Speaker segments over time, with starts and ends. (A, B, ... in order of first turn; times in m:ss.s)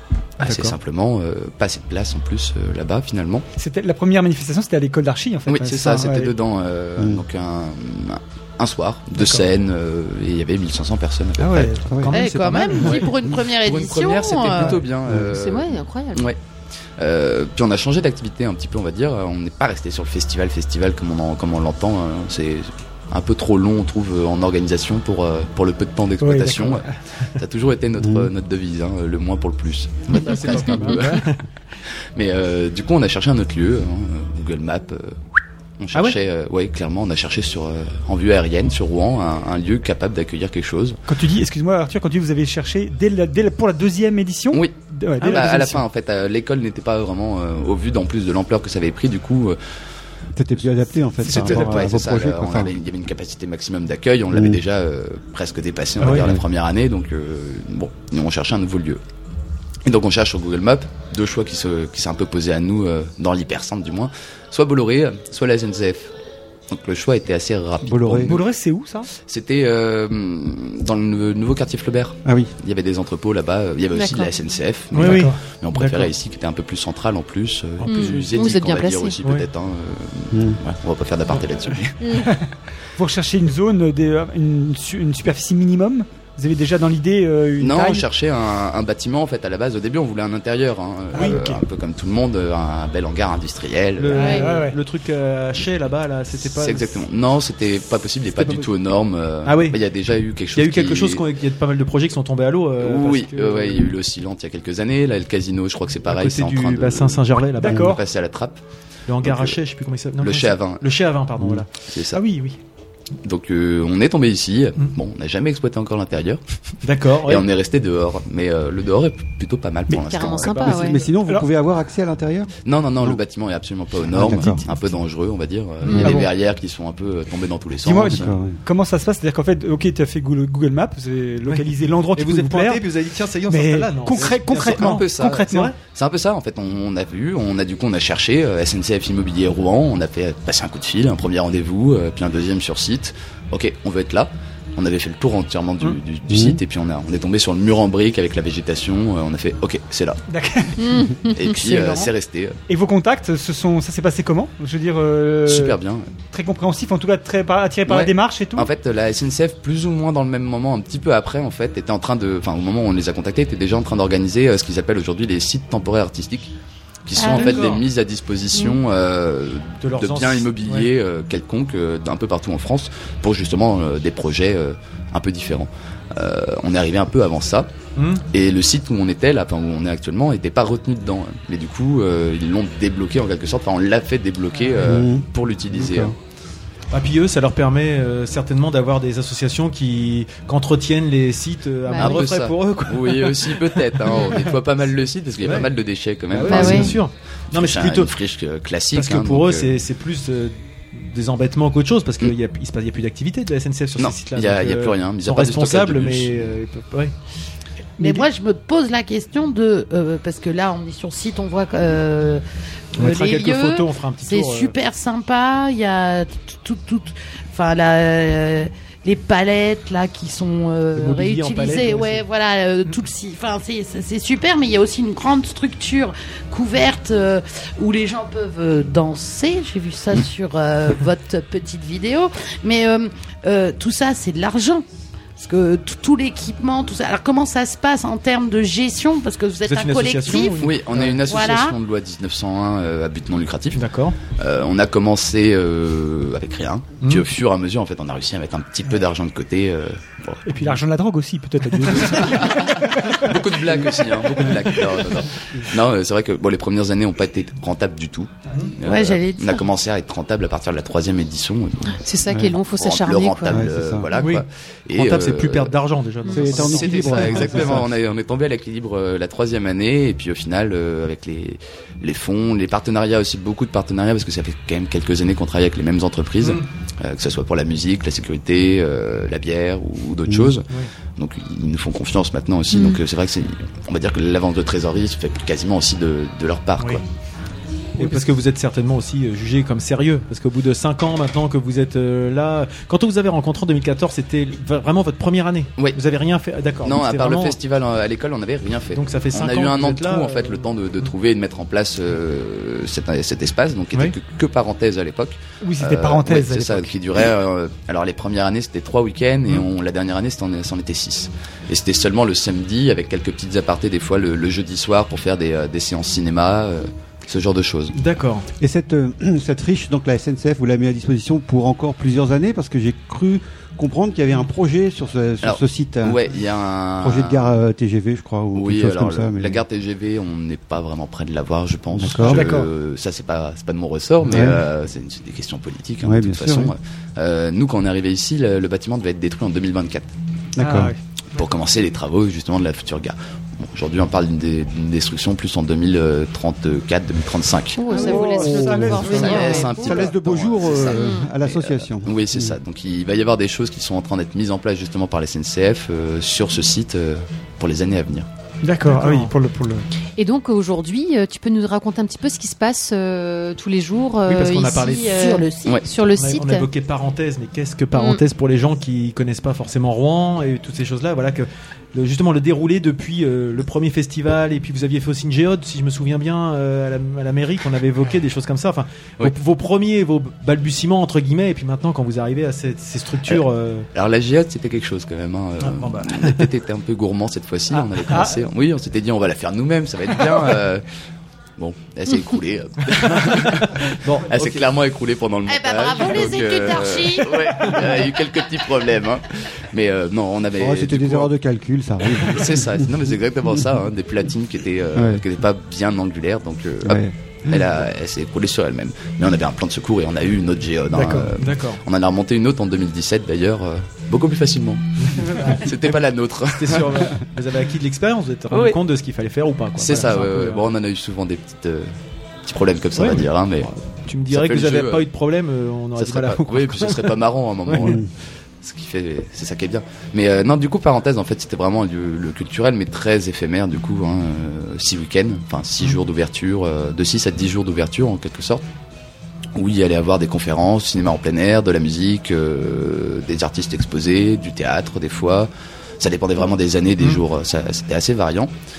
0:00.4-0:03.4 A
0:00.4-0:00.8 B
0:03.6-0:06.3 C
0:05.4-0:11.8 A
0:07.0-0:07.2 D
0:11.4-0:12.0 C
0:11.8-0:12.1 D
0:12.0-0:13.1 B
0:12.1-0:14.8 E
0:13.6-0:16.4 A
0:15.2-0:16.3 F
0:17.0-0:31.3 A
0:26.2-0:26.8 C
0:28.0-0:28.3 D
0:30.1-0:31.4 B
0:32.1-0:35.2 A
0:35.8-0:41.0 A
0:41.1-0:45.8 C
0:44.5-0:49.6 A
0:45.2-0:45.7 B
0:50.4-0:52.7 D
0:51.2-0:51.9 C
0:51.2-0:59.0 A
0:54.3-0:54.6 D
0:56.0-0:56.3 B
0:56.0-0:56.4 D
0:59.8-1:06.1 A
1:06.7-1:08.4 A
1:07.8-1:08.3 D
1:08.2-1:09.1 C
1:09.1-1:22.1 A
1:12.2-1:12.5 D
1:13.9-1:14.3 F
1:14.9-1:16.1 B
1:15.0-1:15.4 C
1:17.8-1:18.3 B
1:17.8-1:19.2 F
1:20.3-1:20.6 D
1:23.0-1:28.0 C
1:27.6-1:34.3 A
1:31.1-1:31.4 B
1:31.1-1:31.6 C
1:34.0-1:37.0 B
1:34.1-1:34.4 E
1:34.2-1:34.8 C
1:36.3-1:41.2 A
1:38.4-1:38.6 B
1:39.4-1:39.8 B
1:40.5-1:43.9 B
1:42.8-1:48.6 A
1:46.0-1:48.0 B
1:47.6-1:48.0 C
1:49.1-1:51.7 B
1:49.2-1:49.6 A
1:50.2-1:50.9 A
1:51.9-1:52.2 A
1:52.1-1:52.6 C
1:53.2-1:56.4 A
1:56.8-1:57.5 B
1:57.2-2:00.8 A
2:00.0-2:01.0 F
2:00.6-2:03.2 D
2:01.1-2:01.5 C
2:02.6-2:08.4 A
2:04.1-2:04.6 D
2:05.9-2:06.2 B
2:05.9-2:06.1 F
2:05.9-2:06.2 C
2:07.8-2:12.8 C
2:08.0-2:08.6 D
2:11.4-2:15.7 B
2:13.5-2:15.7 C
2:14.6-2:30.2 A
2:26.3-2:26.6 D
2:30.3-2:32.1 C
2:30.8-2:31.1 F
2:31.3-2:32.6 A
2:32.7-2:35.8 C
2:35.5-2:36.2 A
2:36.3-2:38.7 C
2:37.9-2:46.5 A
2:47.1-2:57.7 A
2:47.2-2:47.6 E
2:47.2-2:47.8 B
2:49.8-2:50.9 B
2:58.0-2:58.2 B
2:58.3-3:06.1 A
3:04.8-3:06.1 D
3:06.9-3:14.5 B
3:11.9-3:12.2 F
3:12.0-3:19.8 A
3:15.4-3:15.7 B
3:16.3-3:18.1 B
3:16.5-3:16.9 F
3:18.9-3:27.1 B
3:24.0-3:26.5 A
3:28.0-3:28.3 B
3:28.0-3:32.4 E
3:33.0-3:54.8 E
3:33.0-3:34.7 B
3:40.9-3:42.2 B
3:55.4-4:00.7 E
3:59.6-4:01.2 B
4:00.6-4:10.7 A
4:01.2-4:01.7 E
4:03.7-4:04.2 B
4:07.0-4:07.3 B
4:10.4-4:13.3 C
4:12.0-4:22.0 A
4:18.8-4:19.6 E
4:22.0-4:23.6 F
4:22.3-4:22.5 D
4:22.7-4:25.7 A
4:23.5-4:24.1 D
4:24.1-4:27.8 B
4:26.3-4:27.8 D
4:26.4-4:47.0 A
4:42.7-4:43.0 F
4:48.0-4:57.6 B
4:56.8-5:18.0 A
4:58.9-5:01.1 B
5:05.6-5:06.9 C
5:17.9-5:18.5 B
5:18.6-5:26.2 D
5:25.4-5:27.5 A
5:27.0-5:29.6 D
5:28.5-5:40.1 A
5:31.9-5:32.5 D
5:32.3-5:32.7 C
5:34.2-5:34.6 D
5:36.0-5:36.7 D
5:40.6-5:40.9 D
5:40.6-5:41.0 C
5:41.3-5:47.9 A
5:47.8-5:50.1 F
5:47.9-5:49.6 C
5:48.1-5:52.6 D
5:49.0-5:58.3 A
5:50.9-5:51.3 F
5:58.6-5:59.8 C
5:58.9-5:59.3 B
6:00.2-6:06.7 F
6:04.3-6:05.3 B
6:05.2-6:05.5 E
6:06.1-6:23.9 B
6:07.9-6:08.2 F
6:23.3-6:30.8 A
6:25.6-6:26.5 B
6:28.1-6:28.4 C
6:31.6-6:41.3 A
6:33.0-6:34.7 B
6:35.4-6:37.8 E
6:37.4-6:38.0 B
6:40.6-6:42.9 D
6:42.2-6:54.8 A
6:44.9-6:45.2 D
6:46.8-6:47.1 D
6:50.9-6:51.3 C
6:51.4-6:51.8 B
6:55.0-6:55.7 B
6:55.5-6:57.1 A
6:56.5-7:00.6 B
6:58.5-6:58.8 A
6:59.8-7:01.9 A
7:02.4-7:03.7 A
7:02.9-7:08.0 B
7:04.3-7:05.1 A
7:06.0-7:08.0 A
7:08.6-7:18.6 A
7:19.6-7:25.5 A
7:26.0-7:28.5 A